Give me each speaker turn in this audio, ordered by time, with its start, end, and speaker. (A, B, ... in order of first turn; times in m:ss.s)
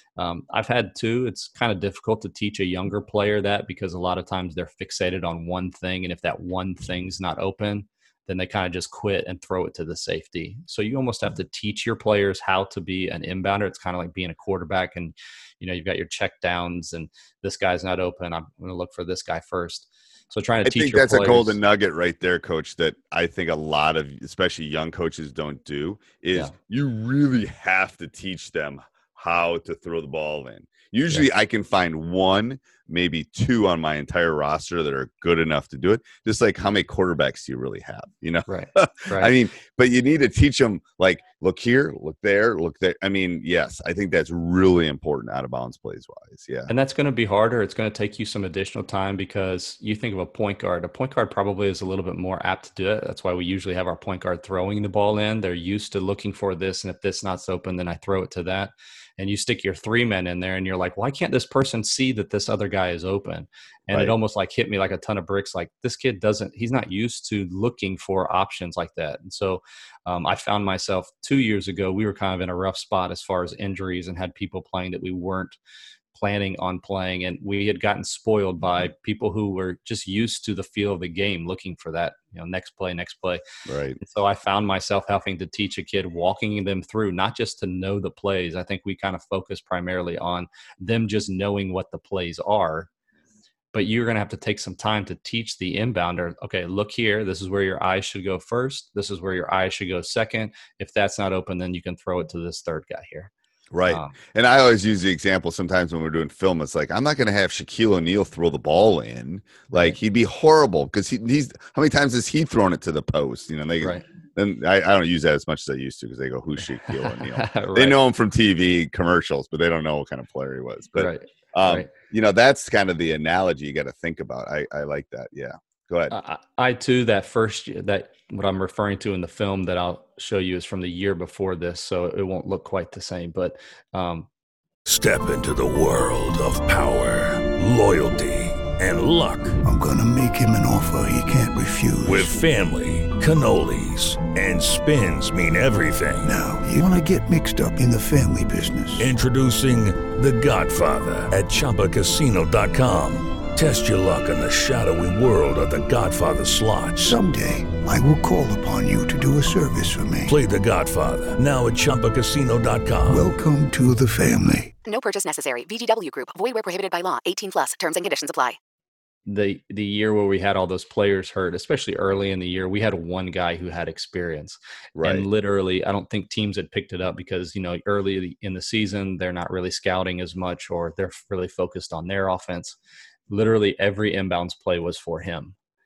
0:00.2-0:21.6 A
0:20.6-0:46.7 B
0:38.5-0:39.3 A
0:46.7-1:15.6 A
1:16.1-1:23.4 A
1:23.7-1:24.0 B
1:24.0-1:32.9 A
1:33.7-1:43.3 A
1:43.7-2:06.2 B
1:43.9-1:44.2 A
1:57.1-1:58.0 A
2:01.0-2:01.9 A
2:06.1-2:14.3 A
2:14.9-2:19.6 C
2:19.6-2:22.4 D
2:22.0-2:26.3 C
2:26.2-2:29.1 D
2:29.0-2:37.2 C
2:37.0-2:40.4 D
2:40.3-2:43.3 C
2:43.1-2:44.7 D
2:44.8-2:48.6 E
2:49.3-3:02.8 A
2:55.0-2:55.3 B
3:03.3-3:05.6 A